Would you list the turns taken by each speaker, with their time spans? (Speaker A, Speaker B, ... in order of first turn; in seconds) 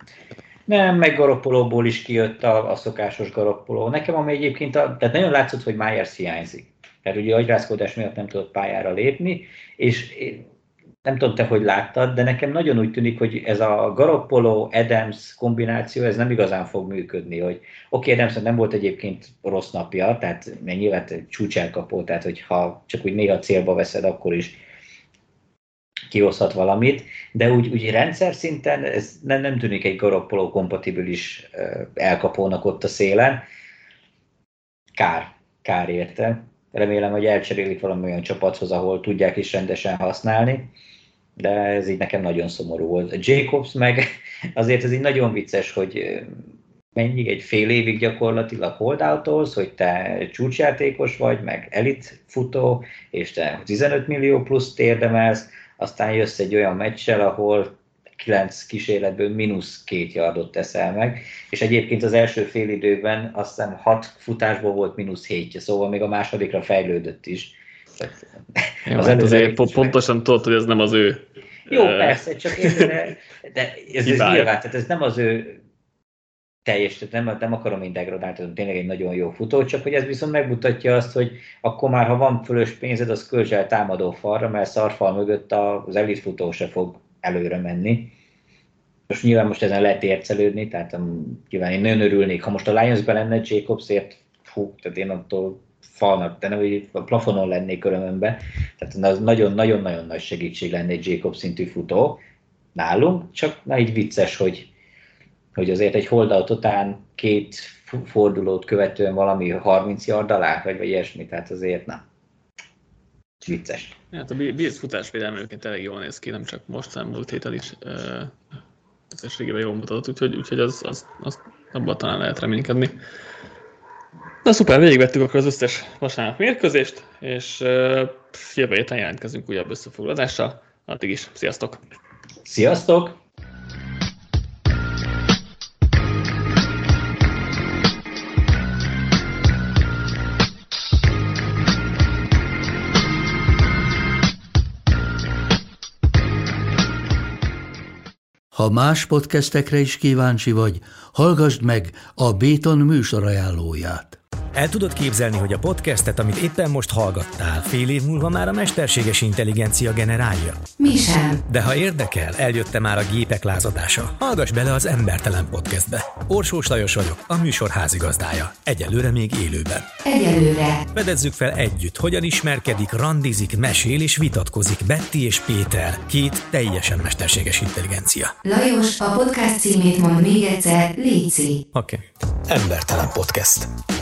Speaker A: 0.7-10.4, 11.1-24.6, 26.1-33.4, 35.0-40.7, 41.4-46.4, 47.0-69.9, 71.7-75.6, 76.7-88.1, 89.1-102.2, 102.8-104.7, 105.5-112.0, 113.4-114.0, 132.4-133.2
Speaker B: 68.8-72.9, 74.0-74.5, 114.1-118.3, 119.1-123.0, 124.4-131.8
Speaker C: 148.5-154.2
Speaker D: 154.6-160.6, 161.5-169.9, 170.9-178.3, 181.8-183.7
Speaker E: 160.8-161.4, 170.1-170.8, 178.4-181.6